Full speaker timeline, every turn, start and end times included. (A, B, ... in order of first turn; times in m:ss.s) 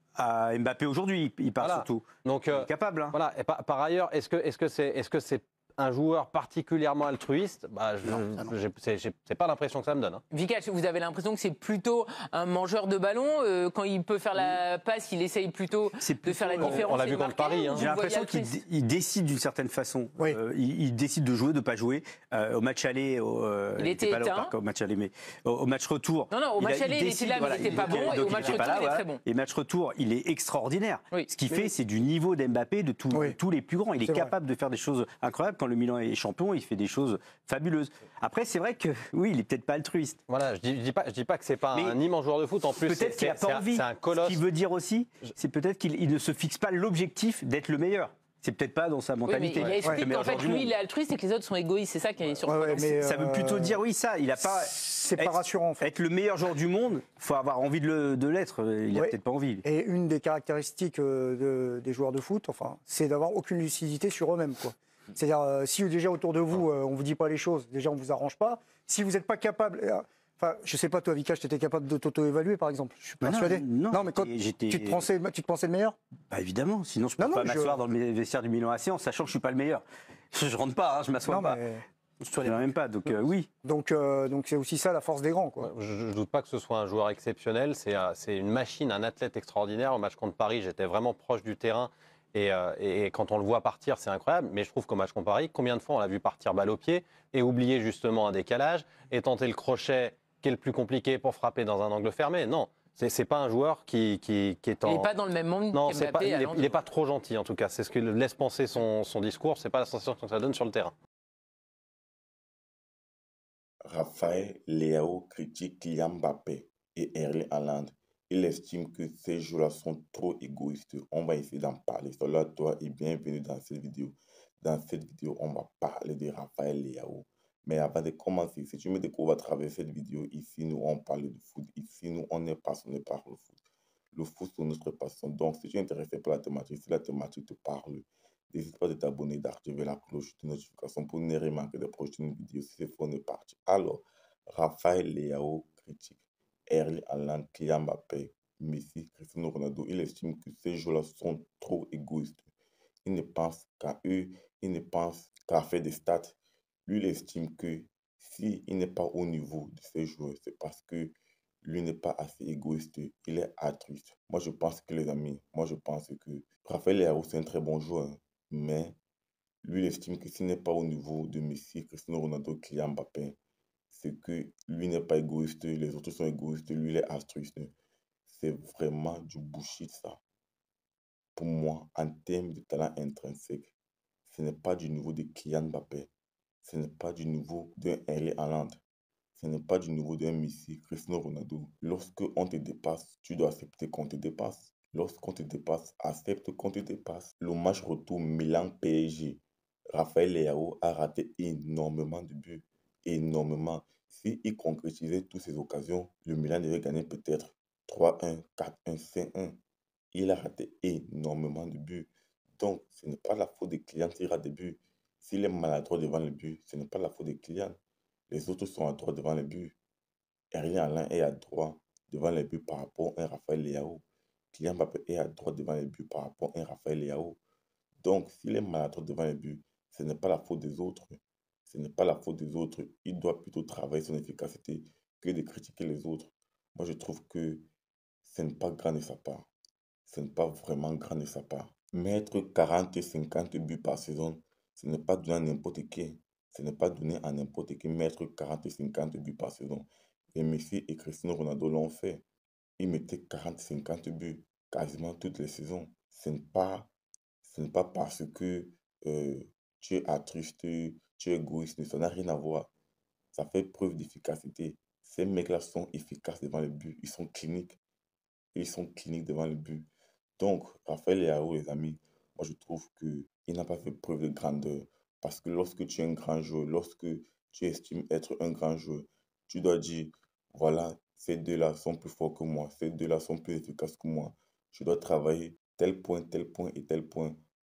0:00.2-0:03.2 A
0:01.6-0:10.2 B
0:10.3-0:18.6 C
0:16.0-0:16.9 A
0:16.6-0:17.9 B
0:17.7-0:40.2 A
0:23.8-0:24.5 C
0:26.3-0:29.2 C
0:33.1-0:33.4 D
0:34.0-0:34.3 D
0:40.3-0:44.4 B
0:42.7-0:50.7 A
0:49.3-0:52.9 C
0:49.5-0:49.8 B
0:52.5-0:53.8 D
0:52.9-0:59.6 A
0:54.4-0:55.9 D
0:58.9-1:16.0 D
1:13.2-1:15.1 A
1:16.3-1:21.6 A
1:17.2-1:17.8 D
1:21.2-1:21.8 D
1:22.2-1:23.5 A
1:22.4-1:25.7 D
1:25.6-1:45.1 B
1:44.8-1:46.8 C
1:45.7-1:50.9 B
1:53.8-2:13.6 E
2:14.1-2:32.5 E
2:33.0-2:49.0 E
2:49.6-2:53.4 E
2:53.9-2:57.7 E
2:58.3-3:00.2 E
3:01.4-3:03.7 E
3:04.3-3:06.1 E
3:06.6-3:08.8 E
3:09.4-3:19.4 E
3:19.9-3:29.6 E
3:30.1-3:37.8 E
3:38.3-3:39.8 E
3:40.5-3:47.4 E
3:48.0-3:57.7 E
3:58.2-3:59.5 E
4:00.1-4:12.2 E
4:12.8-4:16.9 E
4:17.4-4:22.7 E
4:23.3-4:27.8 E
4:28.6-4:29.9 E
4:30.4-4:47.4 E